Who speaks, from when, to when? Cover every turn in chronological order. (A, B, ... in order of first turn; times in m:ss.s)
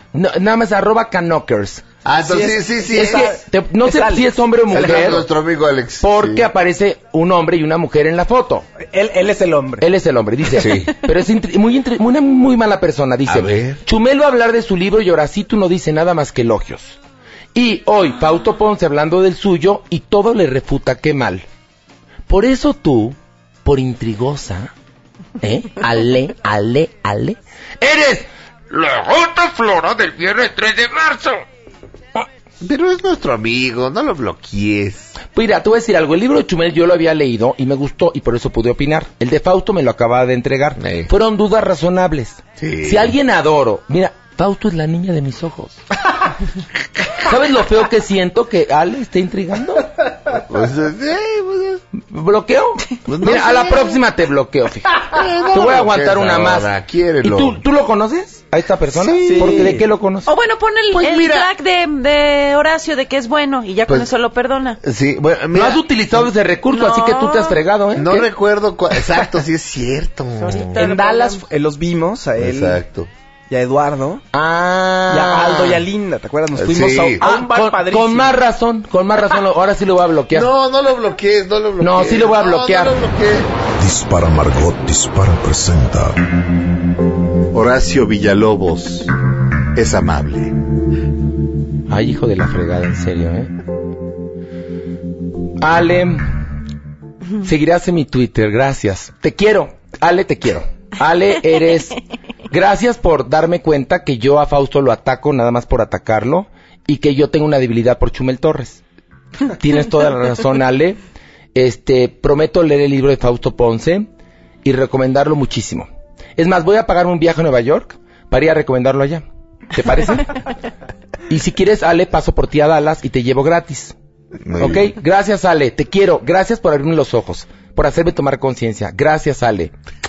0:00.1-0:01.8 A
0:02.0-0:03.4 B
0:02.2-0:04.9 C
0:02.9-0:05.2 A
0:04.7-0:06.5 B
0:06.0-0:08.7 A
0:08.9-0:09.8 C
0:09.8-0:17.0 A
0:10.5-0:10.9 B
0:13.3-0:13.8 B
0:17.5-0:21.5 A
0:22.3-0:24.7 A
0:25.4-0:31.4 A
0:32.6-0:35.1 B
0:35.3-0:45.8 A
0:40.8-0:41.1 B
0:42.6-0:43.2 B
0:47.2-0:49.9 A
0:50.3-0:51.8 B
0:52.1-0:56.7 A
0:53.1-0:54.0 B
0:55.0-0:57.6 B
0:57.2-1:00.3 A
0:58.9-0:59.8 B
0:59.2-0:59.8 C
1:00.2-1:04.8 D
1:00.9-1:01.5 B
1:04.8-1:05.8 B
1:05.5-1:08.3 A
1:06.7-1:07.6 D
1:07.9-1:10.9 B
1:10.4-1:11.4 D
1:10.8-1:12.8 C
1:12.4-1:13.1 B
1:13.5-1:14.2 C
1:14.3-1:15.6 A
1:15.1-1:18.4 C
1:16.6-1:17.2 B
1:17.2-1:20.5 A
1:20.3-1:23.5 B
1:21.8-1:23.0 A
1:23.8-1:26.2 E
1:27.5-1:29.1 B
1:29.8-1:30.6 B
1:31.9-1:33.5 A
1:35.6-1:36.3 A
1:37.4-1:42.0 A
1:42.5-1:48.8 A
1:49.4-1:51.0 A
1:51.6-1:54.1 A
1:54.6-1:59.2 A
1:59.7-2:00.4 A
2:01.3-2:04.0 A
2:04.5-2:04.9 B
2:04.6-2:09.7 A